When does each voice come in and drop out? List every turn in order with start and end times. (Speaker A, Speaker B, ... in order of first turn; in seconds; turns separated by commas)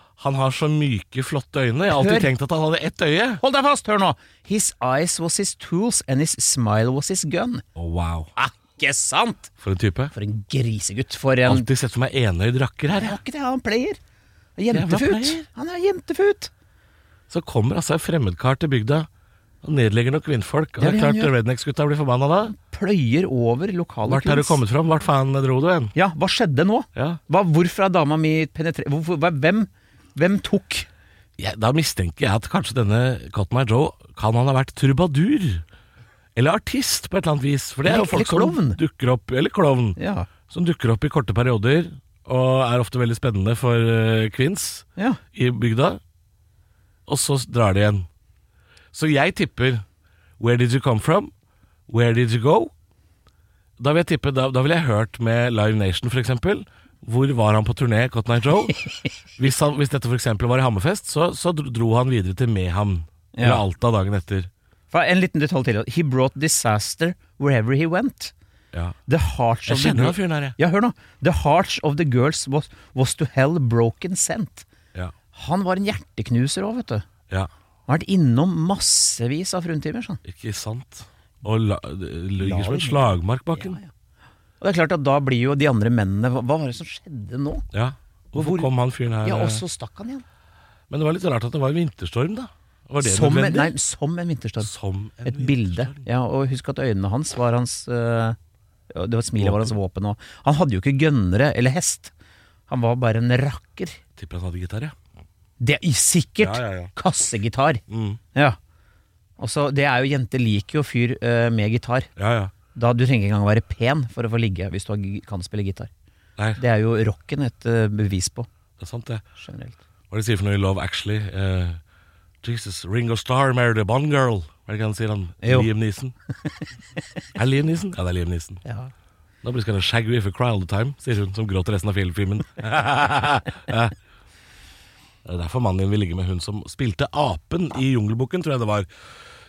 Speaker A: 0.2-3.4, Speaker B: 1.9-2.3, Speaker B: 3.4-7.6, Speaker A: 7.8-8.3, Speaker B: 8.3-9.5, Speaker A: 9.6-10.1, Speaker B: 10.1-11.7, Speaker A: 11.4-13.2, Speaker B: 12.9-14.0, Speaker B: 14.6-16.5, Speaker A: 14.7-15.4, Speaker A: 17.3-19.1, Speaker A: 19.6-22.5, Speaker B: 20.8-21.3, Speaker B: 22.4-24.6, Speaker A: 24.1-25.9, Speaker B: 25.9-30.9, Speaker A: 26.9-27.2, Speaker A: 31.4-35.6, Speaker A: 36.3-46.0, Speaker B: 37.8-38.8, Speaker B: 40.0-40.3, Speaker A: 47.1-48.1, Speaker A: 48.9-49.8, Speaker A: 50.4-51.3, Speaker A: 51.9-52.7, Speaker A: 53.8-58.8, Speaker A: 59.4-64.5, Speaker B: 63.3-63.6, Speaker B: 64.9-68.3, Speaker B: 69.1-74.7, Speaker A: 69.7-70.6, Speaker B: 75.3-77.0, Speaker B: 77.9-80.2, Speaker A: 80.2-83.8, Speaker B: 82.4-83.9, Speaker B: 84.6-87.6, Speaker A: 87.7-89.6, Speaker B: 88.3-88.7, Speaker B: 89.2-90.2, Speaker A: 90.9-93.7, Speaker B: 93.0-94.7, Speaker A: 94.6-96.0, Speaker B: 95.2-98.3, Speaker B: 98.9-102.1, Speaker A: 99.4-99.7, Speaker B: 102.7-104.0, Speaker A: 104.2-104.9, Speaker B: 105.6-107.8, Speaker A: 106.4-106.9, Speaker A: 107.9-108.2, Speaker B: 109.4-112.1, Speaker A: 112.2-112.5, Speaker B: 112.7-115.9, Speaker B: 116.6-118.5, Speaker A: 118.8-119.2, Speaker B: 119.4-119.8, Speaker A: 120.1-121.8, Speaker A: 122.4-126.1, Speaker B: 125.4-125.7, Speaker A: 127.3-128.6, Speaker B: 128.6-128.9, Speaker A: 129.4-133.9, Speaker A: 135.2-138.9